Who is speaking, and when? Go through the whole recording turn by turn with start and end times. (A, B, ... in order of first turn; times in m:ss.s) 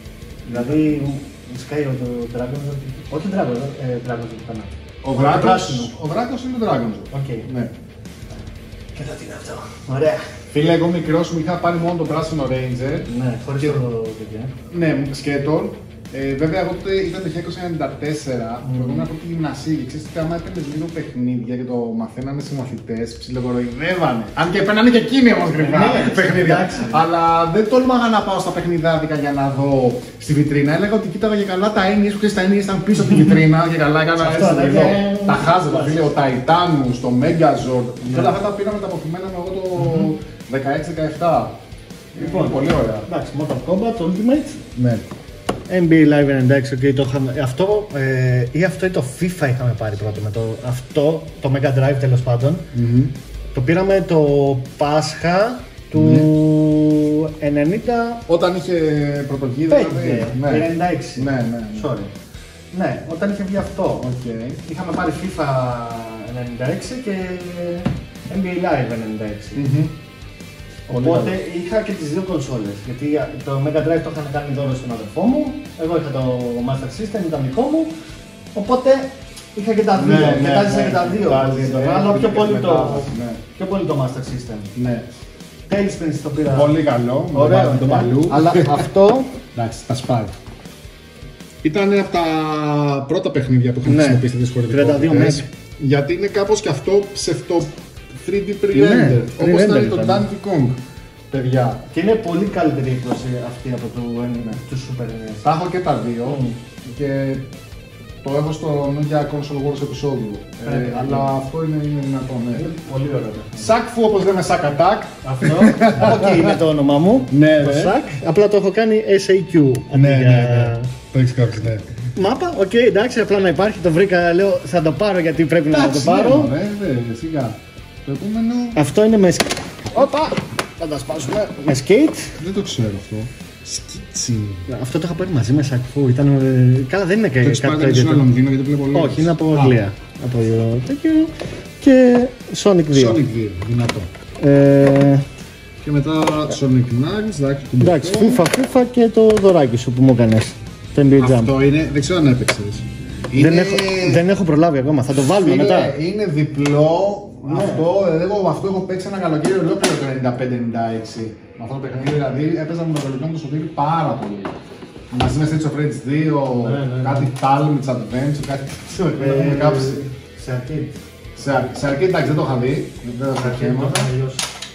0:00.4-0:00.9 A
0:00.5-0:05.9 B
0:05.0-0:07.7 A
0:07.1-0:07.5 B
0:08.9-0:10.2 B
0:10.5-0:13.1 A
0:13.1-0:14.5 B
0:14.7-0:41.6 A
0:18.6-0:19.1 B
0:25.6-0:27.0 B
0:34.2-0:36.1 B
0:38.1-0:38.4 B
0:42.1-0:43.1 A
0:42.2-0:44.6 B
0:44.8-0:45.0 A
0:45.7-0:52.6 B
0:52.7-0:53.1 A
0:53.5-0:58.2 B
0:55.9-0:56.3 A
0:58.3-1:01.9 A
0:59.7-1:02.1 B
1:02.7-1:04.1 B
1:04.0-1:04.6 A
1:04.6-1:09.6 B
1:09.5-1:09.9 A
1:10.9-1:17.9 B
1:10.9-1:11.4 A
1:18.5-1:24.7 B
1:19.9-1:23.4 A
1:24.8-1:25.0 A
1:25.7-1:26.7 B
1:26.4-1:28.9 A
1:27.3-1:29.3 B
1:29.5-1:30.3 A
1:31.6-1:40.8 A
1:33.8-1:35.4 B
1:38.7-1:40.3 B
1:41.3-1:41.8 A
1:41.9-1:45.5 B
1:45.4-1:47.5 A
1:46.2-1:46.6 B
1:48.2-1:52.7 A
1:50.6-1:51.3 B
1:52.5-1:53.7 B
1:53.6-1:56.6 A
1:55.2-2:00.9 B
1:57.3-1:58.0 A
1:59.9-2:01.8 A
2:02.2-2:06.5 B
2:05.7-2:08.8 A
2:08.7-2:12.4 B
2:12.4-2:14.7 A
2:14.7-2:18.3 B
2:17.4-2:19.8 A
2:18.9-2:23.2 B
2:22.9-2:24.1 A
2:24.4-2:25.2 B
2:25.8-2:28.4 A
2:27.8-2:31.5 B
2:31.2-2:34.2 A
2:33.3-2:36.0 B
2:35.3-2:44.6 A
2:37.4-2:37.8 B
2:45.1-2:50.0 A
2:46.5-2:47.3 B
2:49.2-2:51.0 B
2:51.4-2:54.1 A
2:53.3-2:54.4 B